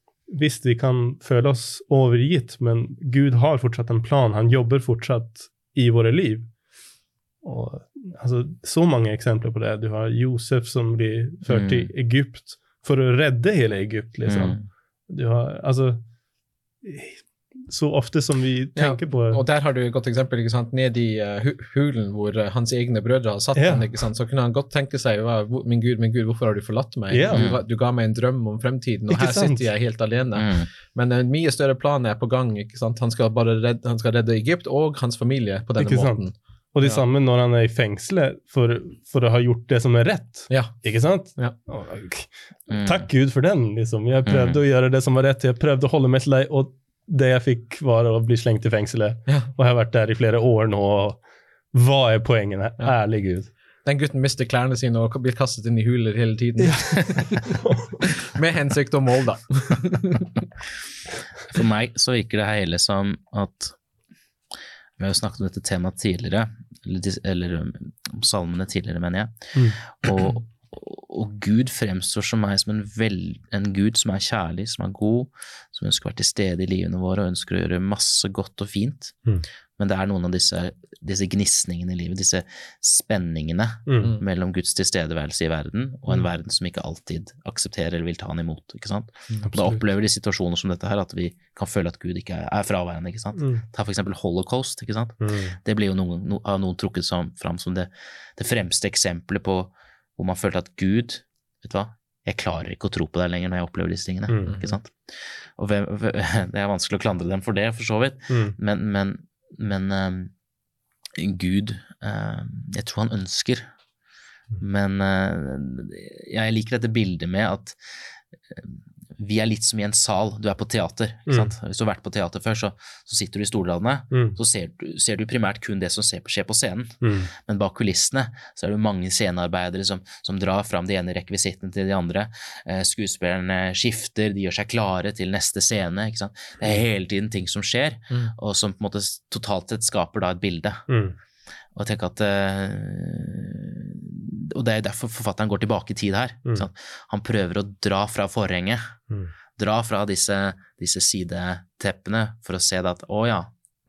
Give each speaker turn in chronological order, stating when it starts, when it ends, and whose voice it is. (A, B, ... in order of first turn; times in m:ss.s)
0:00.3-0:06.5 A
0:07.4-0:14.6 A
0:11.5-0:11.9 B
0:14.3-0:14.7 B
0:15.1-0:16.0 A
0:16.8-0:19.4 A
0:18.8-0:37.0 C
0:23.6-0:23.8 A
0:27.1-0:27.5 A
0:27.3-0:27.6 B
0:29.1-0:29.7 A
0:30.4-0:30.7 B
0:35.8-0:51.2 A
0:40.5-0:40.8 C
0:42.7-0:43.1 B
0:44.2-0:44.6 B
0:51.7-0:53.5 A
0:53.8-0:57.4 C
0:56.6-0:58.0 A
0:58.1-1:00.3 C
1:01.5-1:03.8 B
1:05.0-1:19.2 B
1:19.8-1:50.3 B
1:23.9-1:24.1 A
1:29.5-1:29.8 A
1:33.4-1:33.6 A
1:35.2-1:35.6 A
1:44.3-1:44.6 A
1:44.4-1:44.8 C
1:48.3-1:48.6 A
1:51.2-1:53.7 B
1:54.6-1:57.8 B
1:58.5-2:20.9 B
2:01.3-2:01.5 A
2:04.1-2:04.4 A
2:07.0-2:07.3 A
2:20.9-2:21.2 A
2:21.8-2:29.0 B
2:29.6-2:33.5 B